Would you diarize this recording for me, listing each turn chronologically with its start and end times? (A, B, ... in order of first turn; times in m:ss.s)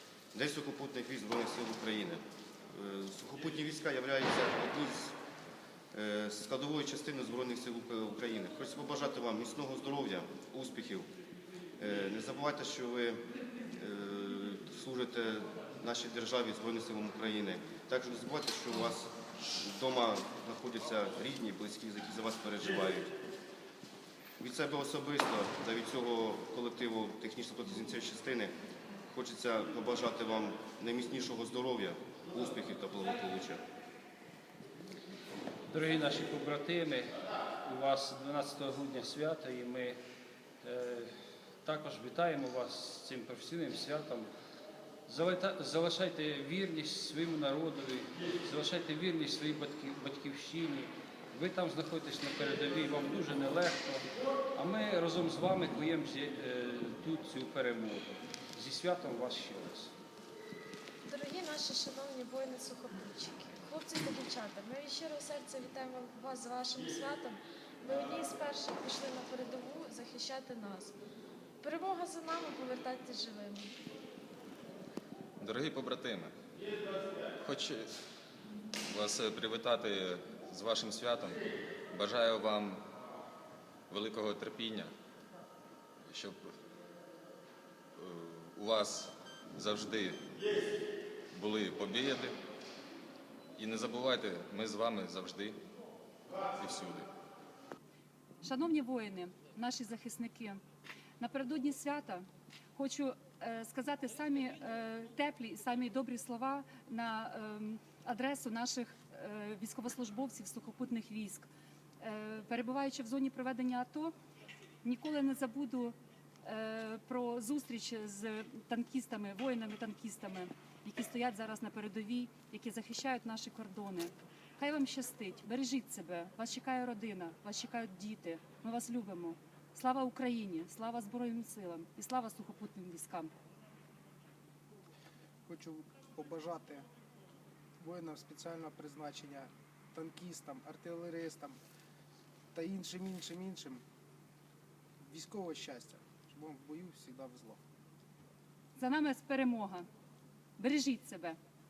0:00.3-0:05.2 A
0:05.9-0:11.1 A
0:11.8-0:13.3 A
0:13.8-0:23.1 A
0:24.4-0:28.6 A
0:29.1-0:33.6 A
0:35.7-0:40.0 B
0:40.6-0:44.3 B
0:45.1-0:59.9 B
1:01.1-1:10.9 C
1:11.6-1:13.7 C
1:15.4-1:16.3 D
1:17.4-1:17.9 D
1:18.9-1:22.8 D
1:23.9-1:24.9 D
1:26.1-1:26.4 D
1:28.0-1:30.2 D
1:31.3-1:32.4 D
1:33.6-1:35.6 D
1:36.6-1:37.1 D
1:38.4-1:40.6 E
1:41.2-1:51.5 E
1:52.0-1:54.1 E
1:54.8-2:13.3 E
2:15.5-2:16.9 F
2:17.8-2:21.6 F
2:22.5-2:23.8 F
2:25.0-2:27.6 F
2:28.8-2:29.9 E
2:30.6-2:31.4 E